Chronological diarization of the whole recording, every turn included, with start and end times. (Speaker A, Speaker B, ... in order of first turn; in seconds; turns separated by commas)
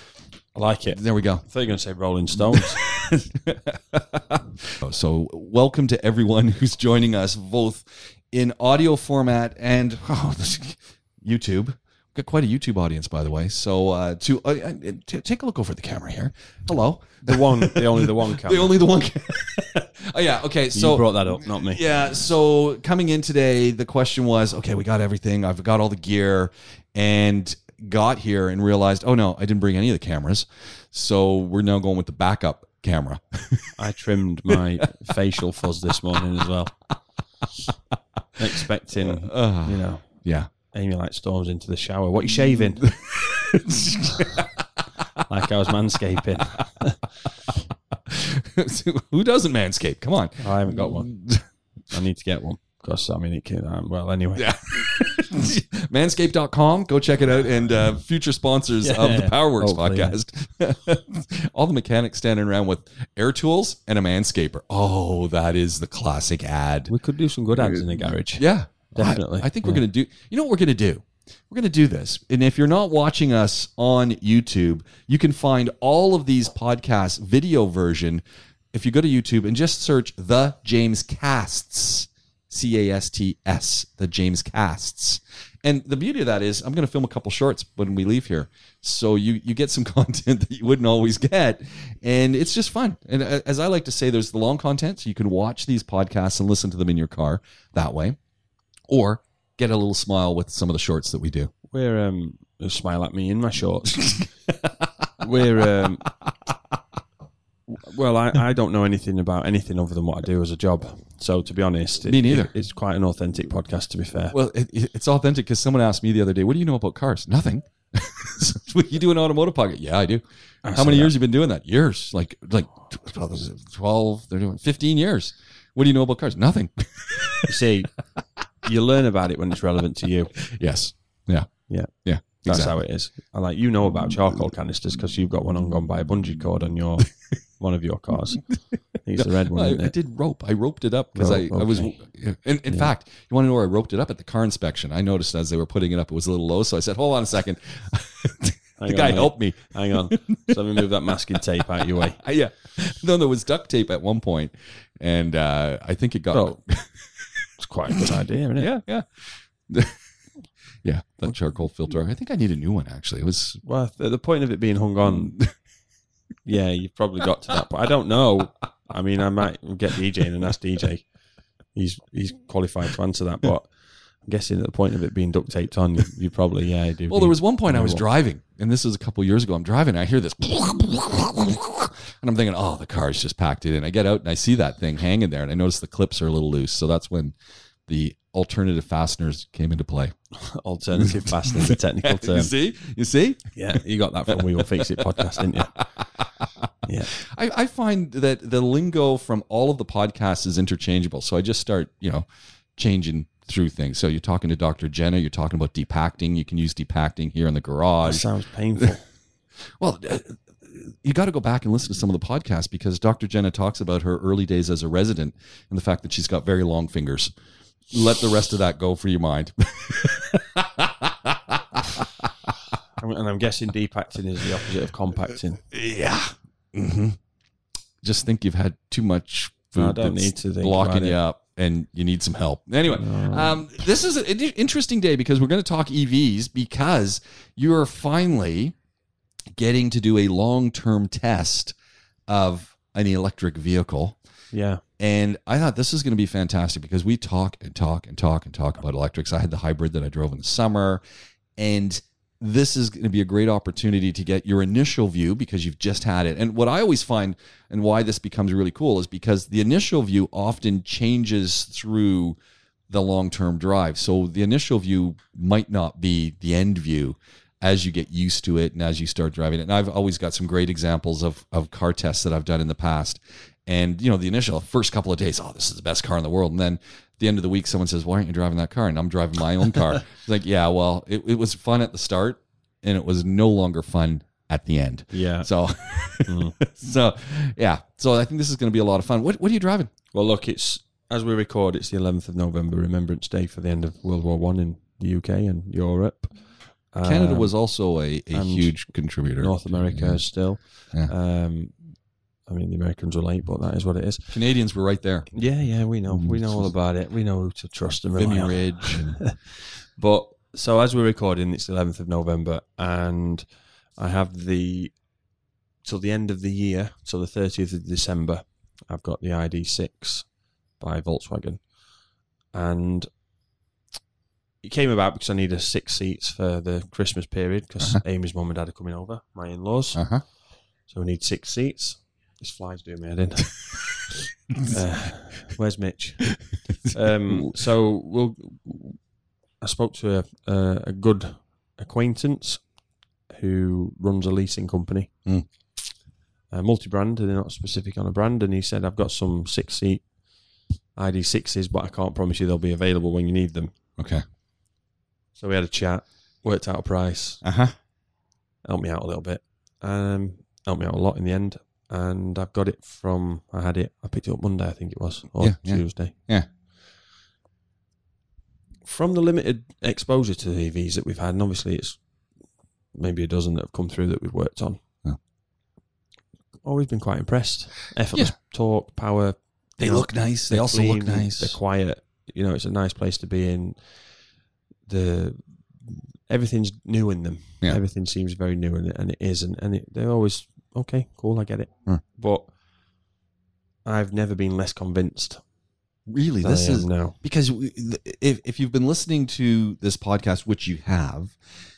Speaker A: 0.5-2.8, Speaker B: 0.9-1.4, Speaker B: 2.5-33.8, Speaker A: 17.2-18.8, Speaker A: 20.7-21.8, Speaker A: 33.8-36.7, Speaker B: 34.5-34.9, Speaker A: 38.4-40.0, Speaker B: 39.0-40.5, Speaker A: 40.7-42.9, Speaker B: 42.4-44.7, Speaker A: 45.2-47.0, Speaker B: 47.5-51.4, Speaker A: 50.4-51.1, Speaker A: 51.9-54.6, Speaker B: 54.4-66.9, Speaker A: 58.8-60.2, Speaker A: 66.9-69.8, Speaker B: 67.5-78.2, Speaker B: 78.7-98.2, Speaker B: 98.9-101.5, Speaker A: 101.7-104.3, Speaker A: 105.2-106.1, Speaker A: 107.7-114.3, Speaker B: 112.1-112.5, Speaker B: 114.3-127.5, Speaker A: 120.6-121.1, Speaker A: 127.5-127.9, Speaker A: 128.6-130.3, Speaker B: 130.4-132.7, Speaker A: 131.7-139.9, Speaker B: 139.2-150.8, Speaker A: 141.1-142.0, Speaker A: 148.8-152.2, Speaker B: 151.8-160.0, Speaker A: 156.3-156.6, Speaker A: 157.6-158.8, Speaker B: 160.8-163.6, Speaker A: 163.6-165.4, Speaker B: 165.1-165.5, Speaker A: 166.4-171.1, Speaker A: 171.7-178.0, Speaker B: 177.1-187.3, Speaker B: 187.9-190.1, Speaker A: 190.3-192.5, Speaker B: 191.0-193.5, Speaker A: 193.6-195.8, Speaker B: 194.3-208.3, Speaker A: 196.8-197.1, Speaker A: 208.0-209.0, Speaker B: 209.8-217.3, Speaker B: 217.9-222.5, Speaker A: 223.0-225.6, Speaker B: 225.7-227.2, Speaker B: 228.0-238.8, Speaker A: 229.7-231.2, Speaker A: 232.9-233.6, Speaker B: 239.5-241.7, Speaker B: 242.3-244.2, Speaker A: 244.5-244.8, Speaker B: 245.0-251.0, Speaker B: 251.6-262.4, Speaker B: 262.9-289.9, Speaker A: 285.1-285.5, Speaker A: 286.2-286.6, Speaker A: 290.1-297.5, Speaker B: 297.0-300.2, Speaker A: 298.3-301.8, Speaker A: 302.5-304.3, Speaker B: 304.3-305.3, Speaker A: 305.3-313.4, Speaker B: 306.1-306.4, Speaker B: 308.2-309.2, Speaker A: 314.0-314.9, Speaker A: 315.8-321.7, Speaker A: 322.5-323.1, Speaker A: 324.6-330.3, Speaker B: 329.9-330.2, Speaker A: 330.9-333.7, Speaker A: 334.6-339.0, Speaker A: 339.6-342.7, Speaker A: 343.3-345.2, Speaker A: 346.5-350.1, Speaker A: 350.9-353.7, Speaker B: 354.0-354.2, Speaker A: 355.4-357.4, Speaker B: 357.4-357.7, Speaker A: 358.6-366.1, Speaker B: 365.4-366.5, Speaker A: 368.8-372.0, Speaker A: 372.9-374.8, Speaker A: 376.6-383.9, Speaker B: 379.8-381.6, Speaker A: 384.9-392.5, Speaker A: 393.8-395.4, Speaker B: 396.1-401.3, Speaker A: 396.4-397.2